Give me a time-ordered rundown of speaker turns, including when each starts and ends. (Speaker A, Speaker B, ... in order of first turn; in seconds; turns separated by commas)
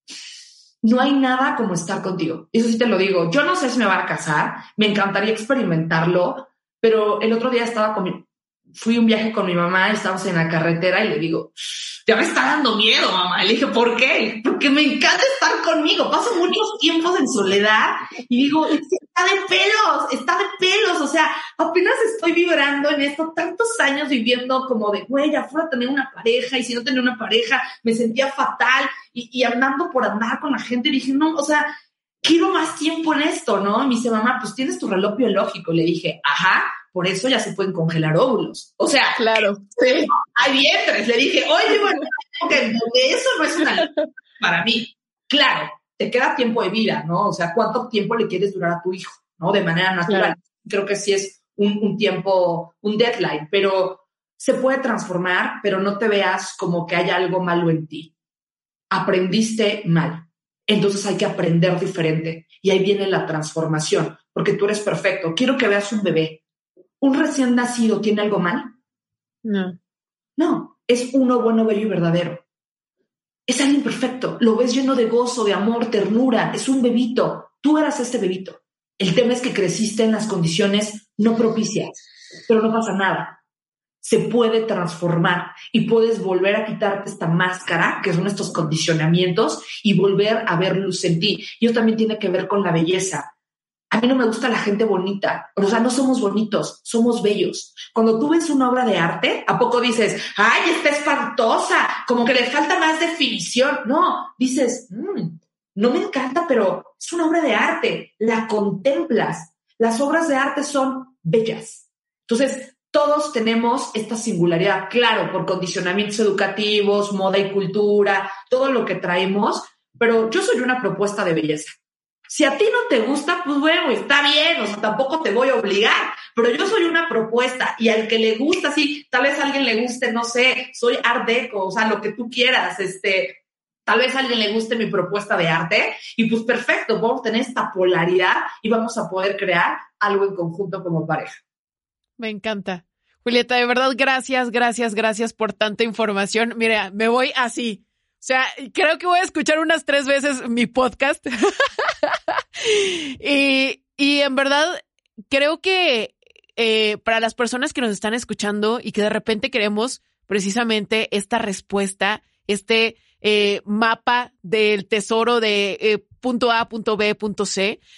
Speaker A: 0.8-31.7, Speaker A: 32.2-39.4, Speaker B: 39.1-40.1, Speaker A: 40.0-58.1, Speaker B: 50.1-50.4, Speaker A: 58.9-66.4, Speaker A: 67.0-68.7, Speaker B: 69.4-69.8, Speaker A: 70.4-72.4, Speaker A: 73.5-83.4, Speaker A: 84.0-93.3, Speaker A: 93.9-121.7, Speaker A: 122.3-141.4, Speaker B: 142.2-167.8